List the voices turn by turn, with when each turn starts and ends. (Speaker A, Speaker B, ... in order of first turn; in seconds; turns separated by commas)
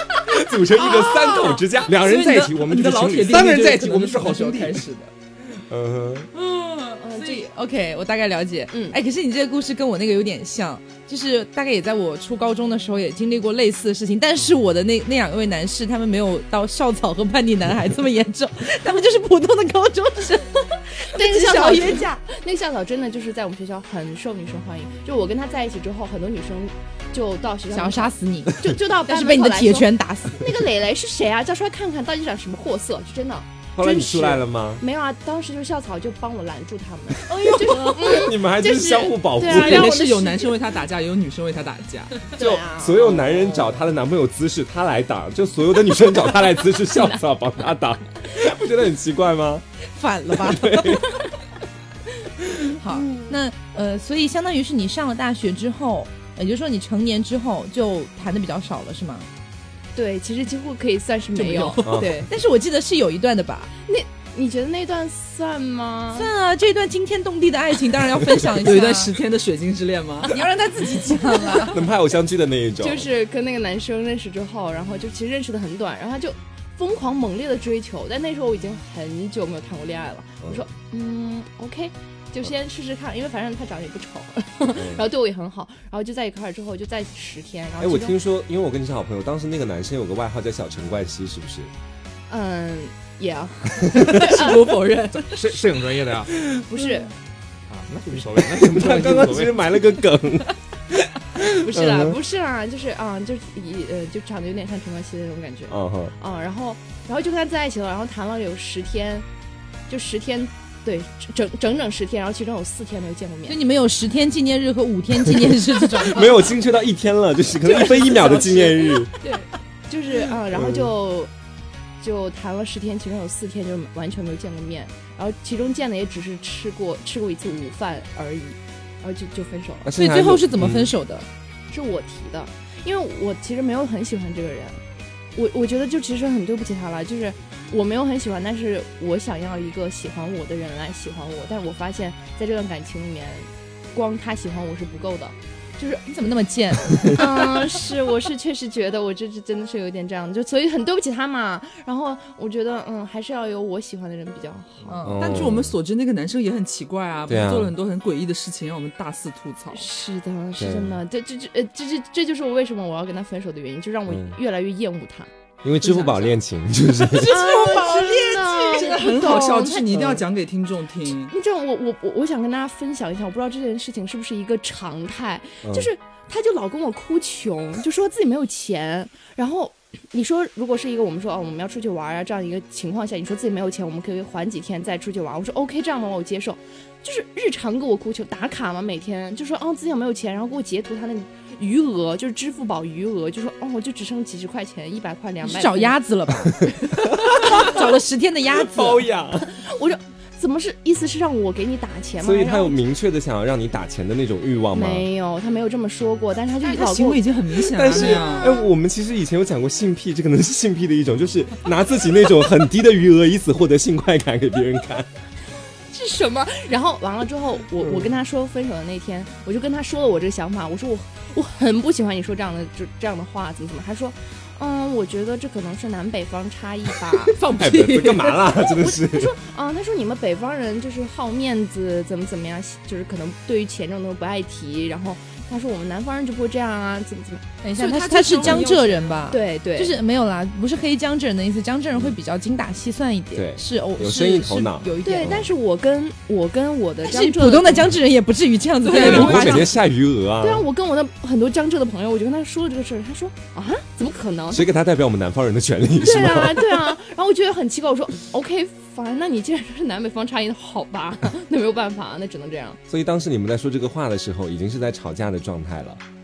Speaker A: 0.2-2.0, Speaker B: 0.8-1.6, Speaker C: 1.8-4.8, Speaker D: 2.0-5.1, Speaker A: 5.7-6.3, Speaker E: 6.3-22.2, Speaker B: 7.1-7.5, Speaker B: 8.7-9.0, Speaker B: 21.1-40.6, Speaker E: 27.7-30.5, Speaker A: 33.8-34.8, Speaker D: 37.5-38.1, Speaker A: 37.7-39.9, Speaker D: 39.4-42.4, Speaker E: 42.4-43.1, Speaker A: 42.4-49.6, Speaker D: 43.2-43.6, Speaker E: 49.9-51.0, Speaker A: 50.3-51.1, Speaker E: 52.8-59.3, Speaker B: 59.9-62.0, Speaker D: 61.4-62.3, Speaker A: 61.8-62.1, Speaker E: 61.9-63.7, Speaker B: 63.9-66.3, Speaker E: 66.1-69.1, Speaker D: 68.6-70.4, Speaker E: 70.3-71.8, Speaker A: 71.6-73.1, Speaker B: 72.8-88.2, Speaker A: 84.7-85.1, Speaker A: 87.8-91.7, Speaker B: 92.3-94.8, Speaker D: 94.1-95.3, Speaker C: 95.1-96.3, Speaker B: 96.6-97.1, Speaker C: 97.7-99.6, Speaker A: 98.5-102.2, Speaker B: 101.5-109.2, Speaker A: 105.7-106.1, Speaker B: 109.9-113.6, Speaker E: 113.5-116.4, Speaker A: 116.0-119.1, Speaker B: 117.6-121.3, Speaker A: 120.5-120.9, Speaker B: 122.0-129.9, Speaker A: 129.8-130.9, Speaker E: 129.9-131.3, Speaker B: 131.7-134.8, Speaker B: 135.3-146.0, Speaker E: 146.0-147.6, Speaker B: 147.1-155.2, Speaker E: 154.9-155.2, Speaker A: 155.0-155.8, Speaker D: 155.2-159.9, Speaker A: 157.3-157.7, Speaker B: 159.7-165.3, Speaker A: 160.6-161.0, Speaker A: 164.1-164.4, Speaker A: 165.6-167.4, Speaker B: 165.9-166.3, Speaker B: 167.2-170.0, Speaker E: 167.2-169.7, Speaker D: 167.2-171.3, Speaker A: 169.9-170.2, Speaker B: 171.2-195.9, Speaker E: 195.4-199.1, Speaker A: 197.3-197.7, Speaker A: 198.5-199.5, Speaker B: 199.4-202.8, Speaker A: 202.2-205.1, Speaker B: 204.7-208.7, Speaker D: 206.6-208.6, Speaker A: 207.7-215.1, Speaker B: 215.9-227.4, Speaker A: 217.8-218.1, Speaker D: 227.3-228.5, Speaker A: 227.4-229.3, Speaker B: 228.6-240.0, Speaker E: 237.6-245.4, Speaker A: 243.3-245.5, Speaker B: 245.1-247.9, Speaker E: 247.1-249.7, Speaker D: 248.9-249.5, Speaker B: 248.9-249.9, Speaker A: 248.9-250.7, Speaker B: 250.4-254.7, Speaker A: 254.5-256.9, Speaker B: 256.0-262.8, Speaker A: 262.9-266.0